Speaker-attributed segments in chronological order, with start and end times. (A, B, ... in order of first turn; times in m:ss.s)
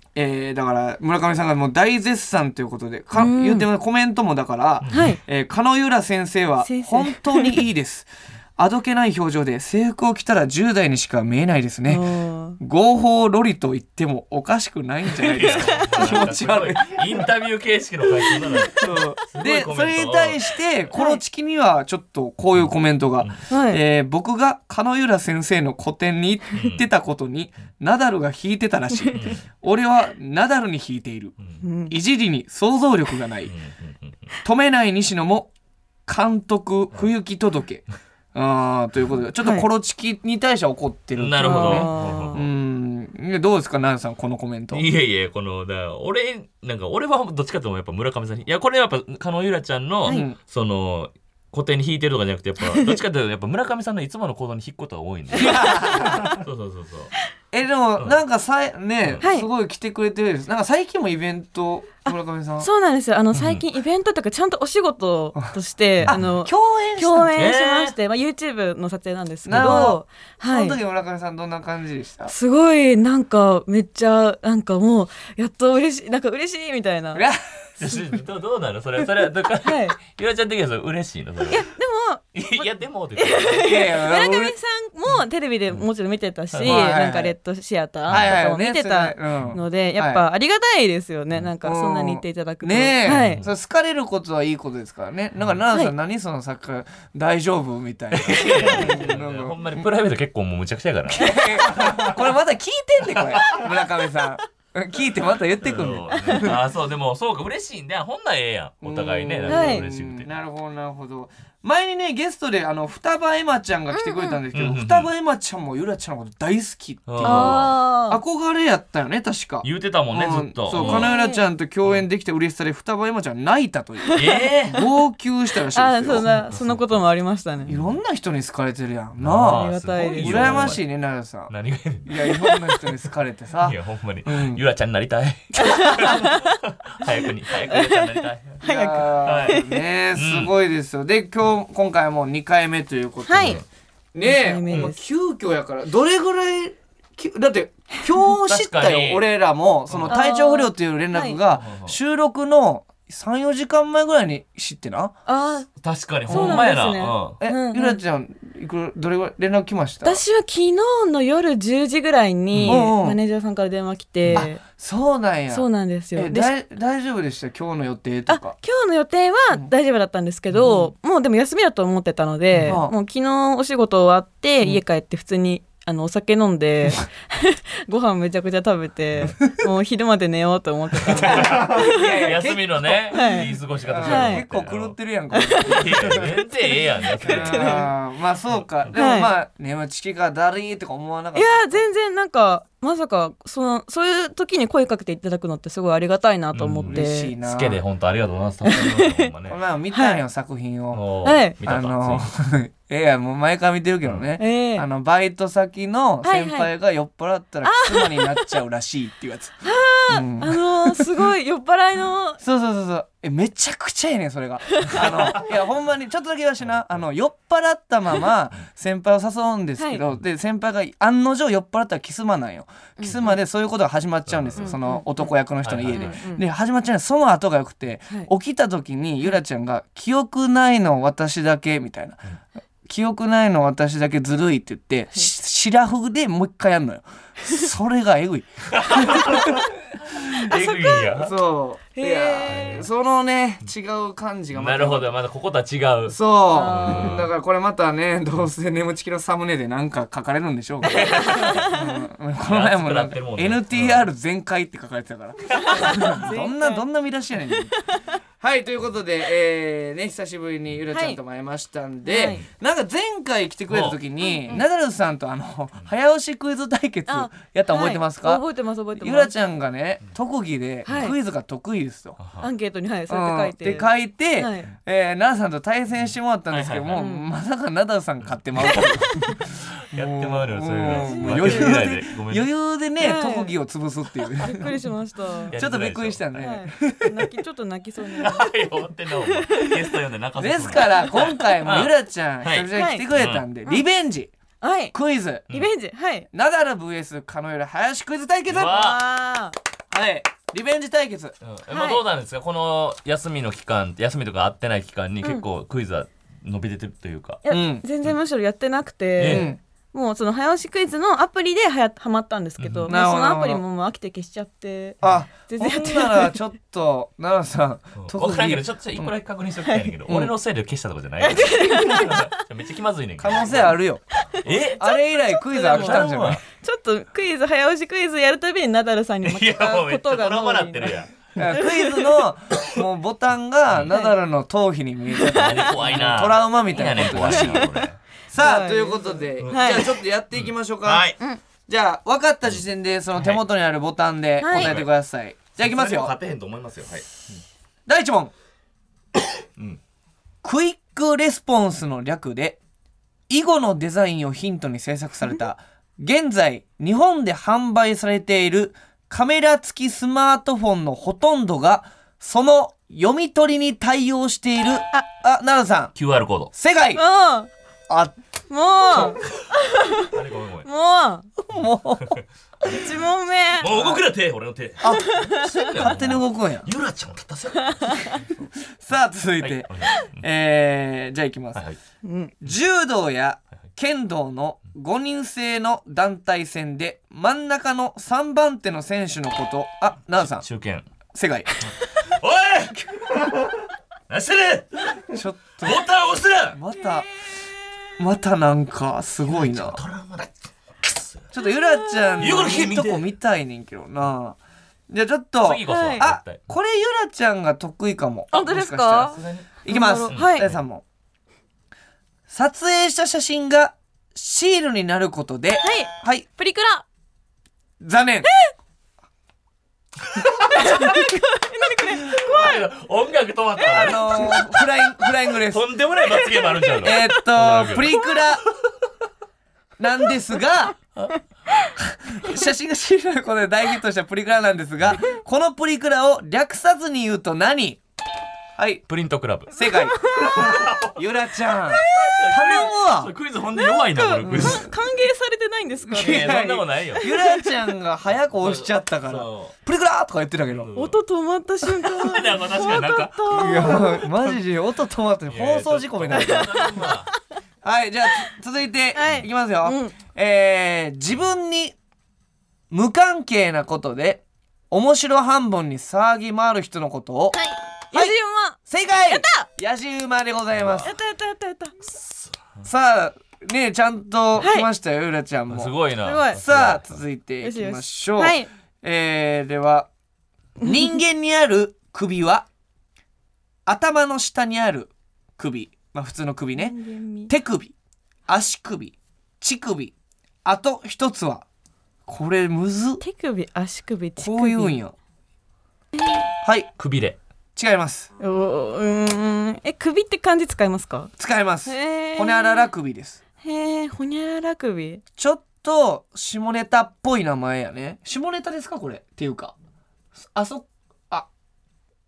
0:00.2-0:12.1 A
0:03.2-0:03.7 B
0:04.8-0:05.1 C
0:04.9-0:05.2 B
0:06.6-0:07.6 B
0:11.9-0:12.6 B
0:12.6-0:17.1 A
0:15.2-0:20.5 C
0:15.4-0:15.8 B
0:18.2-0:19.0 B
0:18.8-0:31.3 A
0:20.9-0:21.2 B
0:22.6-0:23.4 C
0:23.5-0:23.8 B
0:26.5-0:26.8 C
0:28.9-0:29.3 B
0:29.1-0:29.5 C
0:31.6-0:31.9 B
0:31.9-0:33.5 A
0:33.4-0:34.3 C
0:34.4-0:35.5 A
0:36.1-0:44.8 A
0:39.4-0:39.7 B
0:41.2-0:42.5 C
0:41.4-0:42.4 B
0:44.7-0:57.1 C
0:50.1-0:50.4 A
0:55.4-0:56.3 A
0:55.4-0:56.4 B
0:57.5-1:02.7 A
0:59.2-0:59.5 B
1:02.1-1:10.8 B
1:03.3-1:03.6 C
1:06.1-1:07.4 A
1:07.4-1:07.9 C
1:09.4-1:12.3 A
1:12.3-1:17.2 B
1:17.1-1:17.4 A
1:17.8-1:21.7 C
1:19.6-1:20.0 B
1:21.5-1:33.4 B
1:22.3-1:23.6 C
1:23.6-1:24.5 A
1:26.5-1:26.8 C
1:26.6-1:27.3 A
1:28.1-1:28.4 C
1:28.1-1:30.2 A
1:31.6-1:39.8 A
1:33.1-1:33.5 C
1:35.4-1:35.6 C
1:38.1-1:42.1 C
1:41.1-1:46.6 A
1:43.1-1:43.6 C
1:45.6-1:50.3 C
1:46.1-1:46.5 B
1:48.8-2:06.3 A
1:49.5-1:49.8 B
1:53.9-1:54.4 B
1:54.5-1:55.1 C
1:57.1-1:57.7 C
1:57.2-1:58.2 B
1:59.6-2:01.1 C
2:00.7-2:01.4 B
2:04.0-2:04.5 B
2:04.2-2:04.8 C
2:05.7-2:07.7 B
2:06.1-2:07.0 C
2:07.6-2:08.0 C
2:07.7-2:11.5 A
2:09.2-2:10.8 C
2:09.5-2:10.7 B
2:11.5-2:12.3 C
2:12.0-2:14.6 A
2:13.6-2:19.6 C
2:15.6-2:16.6 B
2:17.7-2:19.8 B
2:18.6-2:23.6 A
2:20.1-2:20.5 C
2:23.3-2:23.6 B
2:24.1-2:35.1 A
2:24.2-2:25.0 B
2:28.4-2:29.2 C
2:29.9-2:30.1 C
2:30.1-2:31.4 B
2:31.5-2:32.0 C
2:35.2-2:35.7 B
2:35.8-2:37.4 C
2:36.3-2:36.7 A
2:36.3-2:38.0 B
2:37.4-2:40.2 A
2:40.0-2:44.6 B
2:42.5-2:42.8 C
2:42.6-2:43.2 A
2:44.2-2:44.5 C
2:44.3-2:48.6 A
2:45.5-2:46.5 B
2:48.3-3:02.2 B
2:50.6-2:50.9 A
2:52.7-2:52.9 A
3:01.0-3:06.3 A
3:01.1-3:05.0 C
3:03.1-3:03.5 B
3:04.0-3:04.4 B
3:05.3-3:07.9 B
3:05.6-3:07.9 C
3:07.2-3:11.8 A
3:08.9-3:09.3 B
3:11.3-3:17.3 B
3:16.5-3:19.6 C
3:16.9-3:17.8 A
3:18.6-3:19.3 B
3:19.5-3:21.0 A
3:19.9-3:20.2 B
3:20.9-3:22.3 C
3:21.2-3:21.5 B
3:21.6-3:31.0 A
3:24.4-3:24.8 B
3:26.2-3:26.7 B
3:27.6-3:28.5 B
3:29.6-3:32.4 B
3:32.4-3:52.2 A
3:34.8-3:35.4 B
3:39.8-3:40.0 B
3:43.0-3:43.3 B
3:44.3-3:44.7 C
3:44.6-3:45.0 B
3:45.6-3:46.2 C
3:45.9-3:46.4 B
3:52.8-3:59.6 A
3:58.7-4:01.3 C
4:00.4-4:01.1 B
4:01.1-4:05.1 A
4:01.9-4:02.8 B
4:04.5-4:07.3 C
4:06.1-4:11.1 A
4:06.5-4:07.1 B
4:10.8-4:11.7 C
4:10.9-4:12.0 B
4:11.6-4:17.7 A
4:12.4-4:14.1 C
4:15.5-4:16.1 C
4:15.6-4:16.8 B
4:17.8-4:18.2 B
4:18.4-4:28.4 A
4:20.9-4:21.2 B
4:22.0-4:22.4 B
4:23.7-4:24.0 C
4:24.2-4:24.6 B
4:27.1-4:29.3 B
4:29.0-4:32.2 A
4:30.8-4:31.1 B
4:32.2-4:32.5 C
4:32.4-4:34.7 B
4:33.1-4:44.7 A
4:36.0-4:37.0 C
4:37.0-4:37.3 B
4:38.2-4:38.9 C
4:39.6-4:42.5 C
4:40.9-4:41.8 B
4:43.0-4:43.5 B
4:44.4-4:45.5 B
4:45.5-4:46.3 C
4:45.5-4:47.3 A
4:46.4-4:48.5 B
4:48.2-4:53.4 C
4:49.2-4:49.8 B
4:50.4-4:54.3 A
4:52.7-4:53.0 B
4:54.6-4:54.9 B
4:54.9-4:55.5 A
4:55.5-4:56.3 B
4:56.3-4:58.9 A
4:58.5-4:59.0 C
4:58.6-4:59.6 B
4:59.9-5:01.4 A
5:01.4-5:07.4 C
5:01.7-5:02.0 B
5:07.4-5:16.4 B
5:07.5-5:07.8 A
5:09.2-5:09.5 C
5:09.2-5:09.6 A
5:12.6-5:12.9 C
5:12.9-5:13.6 A
5:15.0-5:19.1 A
5:18.0-5:23.7 C
5:19.6-5:19.9 B
5:20.1-5:20.3 A
5:21.2-5:22.4 B
5:23.2-5:24.0 A
5:24.4-5:32.2 B
5:24.4-5:24.8 C
5:24.7-5:26.4 A
5:25.7-5:26.4 C
5:29.2-5:31.3 C
5:31.4-5:41.1 A
5:35.1-5:36.0 B
5:35.3-5:38.0 C
5:37.0-5:37.8 B
5:38.4-5:39.8 B
5:39.4-5:41.2 C
5:41.7-5:46.1 A
5:43.1-5:43.4 C
5:44.4-5:44.7 B
5:44.5-5:44.9 C
5:45.6-5:47.4 C
5:47.9-5:48.3 A
5:50.4-5:52.6 A
5:53.3-6:05.9 A
6:06.0-6:06.5 C
6:06.5-6:07.0 A
6:06.9-6:07.5 B
6:07.9-6:08.1 A
6:08.5-6:10.1 B
6:10.1-6:10.7 C
6:10.6-6:11.3 B
6:11.4-6:12.2 A
6:12.6-6:13.7 B
6:13.6-6:18.5 C
6:13.6-6:14.0 A
6:14.8-6:15.7 B
6:15.8-6:16.7 A
6:17.8-6:18.2 B
6:18.8-6:21.6 A
6:19.4-6:20.2 C
6:22.0-6:22.3 B
6:22.4-6:30.4 A
6:30.2-6:30.8 C
6:31.1-6:31.5 A
6:31.6-6:33.5 C
6:34.1-6:35.1 C
6:35.1-6:35.8 A
6:35.6-6:36.6 C
6:36.5-6:37.1 A
6:38.0-6:39.8 A
6:39.3-6:41.2 C
6:41.3-6:44.4 A
6:41.4-6:42.4 B
6:42.2-6:43.1 C
6:44.9-6:50.8 A
6:45.4-6:46.5 C
6:45.7-6:46.1 B
6:48.3-6:50.4 B
6:49.1-6:50.6 C
6:52.3-6:56.2 A
6:55.6-6:56.8 B
6:57.8-6:58.3 A
6:58.2-6:58.5 B
7:00.1-7:00.9 C
7:00.5-7:02.6 B
7:02.0-7:04.4 C
7:03.6-7:04.6 B
7:03.7-7:05.7 A
7:05.4-7:08.2 C
7:06.0-7:06.9 B
7:06.8-7:08.4 A
7:09.8-7:10.8 A
7:11.8-7:17.8 A
7:18.6-7:18.8 A
7:18.9-7:19.5 C
7:19.5-7:20.4 A
7:20.0-7:20.5 B
7:20.2-7:21.0 C
7:20.9-7:23.1 A
7:21.7-7:24.7 C
7:21.7-7:22.6 B
7:23.5-7:26.4 B
7:24.2-7:24.7 A
7:25.9-7:30.7 A
7:25.9-7:27.1 C
7:27.0-7:27.5 B
7:28.3-7:29.5 C
7:30.5-7:31.0 C
7:30.7-7:34.1 B
7:31.6-7:33.8 C
7:33.3-7:36.7 A
7:35.3-7:37.1 C
7:36.1-7:36.9 B
7:37.6-7:41.8 A
7:38.9-7:39.9 B
7:39.0-7:39.3 C
7:42.7-7:47.4 A
7:47.3-7:49.4 B
7:47.9-7:50.9 A
7:50.5-7:50.9 C
7:50.8-7:51.8 B
7:51.9-7:52.6 C
7:52.6-7:55.7 A
7:54.4-7:54.7 B
7:55.5-7:57.0 C
7:56.0-7:56.4 B
7:56.3-7:59.9 A
7:57.4-7:58.5 B
8:00.6-8:02.5 A
8:00.6-8:00.9 B
8:03.6-8:06.8 A
8:06.6-8:07.3 B
8:07.3-8:07.7 A
8:08.3-8:09.9 A
8:10.4-8:11.4 A
8:12.0-8:13.0 A
8:13.0-8:14.8 B
8:14.2-8:14.9 A
8:16.4-8:16.7 A
8:16.8-8:17.2 C
8:17.6-8:18.1 A
8:18.2-8:21.1 B
8:21.2-8:23.2 A
8:21.6-8:22.7 B
8:23.4-8:25.0 B
8:25.2-8:29.5 A
8:30.2-8:31.3 A